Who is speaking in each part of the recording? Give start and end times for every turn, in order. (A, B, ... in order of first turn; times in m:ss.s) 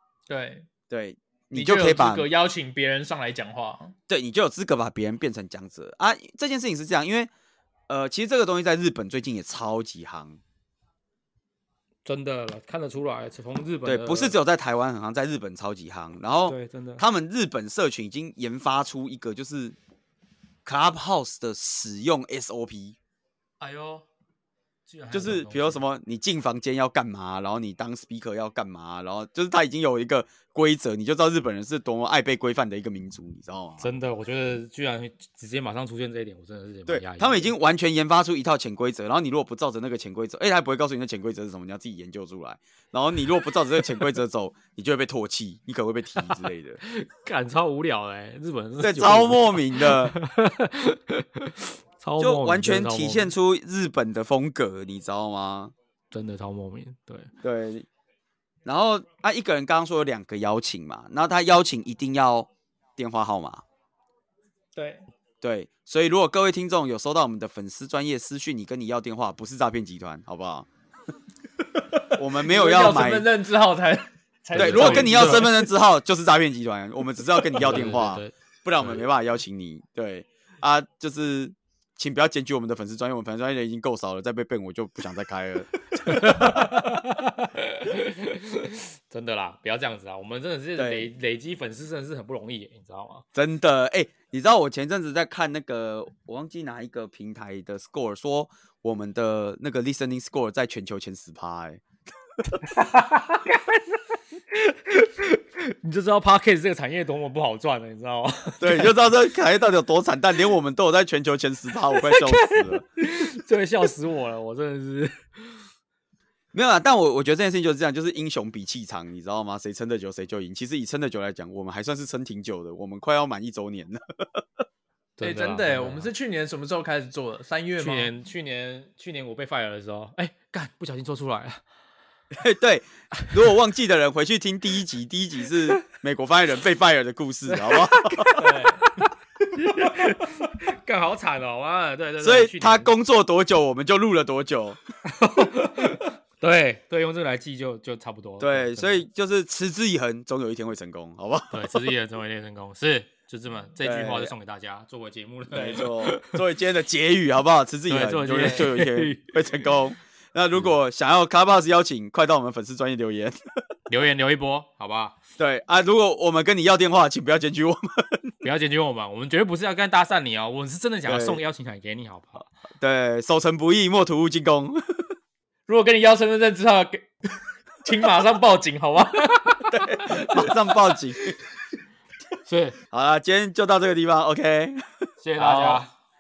0:00.3-0:00.7 A
0:00.9-0:02.3 B
0:01.5-0:04.0 A
0:04.1-0:07.3 B
0:07.9-0:10.4 B
0:12.0-0:14.4 C
0:13.8-0:19.8 B
0:16.4-0:17.0 C
0:20.6-0:23.0 B
0:23.6-0:24.0 C
0:24.8-0:25.8 C
0:25.1-0:33.9 B
0:33.8-0:37.5 C
0:36.9-0:46.8 B
0:46.2-0:53.3 C
0:48.8-0:50.1 B
0:52.2-0:55.7 B
0:56.1-0:57.3 C
0:57.4-0:57.9 B
0:58.6-1:03.6 B
1:04.7-1:05.1 A
1:05.4-1:10.7 B
1:11.9-1:15.7 A
1:12.2-1:13.3 B
1:14.5-1:15.5 C
1:14.6-1:26.7 B
1:17.5-1:19.0 C
1:25.9-1:33.2 C
1:30.8-1:31.1 B
1:33.4-1:41.8 B
1:42.7-1:44.0 C
1:44.5-1:49.0 C
1:48.6-1:52.8 B
1:51.9-1:55.6 C
1:56.5-2:04.4 B
2:05.2-2:06.1 C
2:05.2-2:08.1 A
2:07.8-2:11.6 C
2:12.3-2:18.4 B
2:17.5-2:22.9 C
2:22.2-2:24.8 B
2:25.1-2:29.0 C
2:28.4-2:31.8 B
2:31.5-2:36.4 C
2:33.8-2:34.3 B
2:35.5-2:43.4 B
2:37.9-2:39.6 C
2:43.9-2:45.2 C
2:45.4-2:48.3 B
2:48.4-2:52.5 C
2:51.0-2:51.4 B
2:52.8-2:54.8 B
2:55.7-2:57.1 A
2:57.8-2:59.8 A
2:59.7-3:01.4 B
3:02.4-3:02.8 C
3:02.9-3:05.1 B
3:05.2-3:05.9 C
3:05.4-3:05.9 A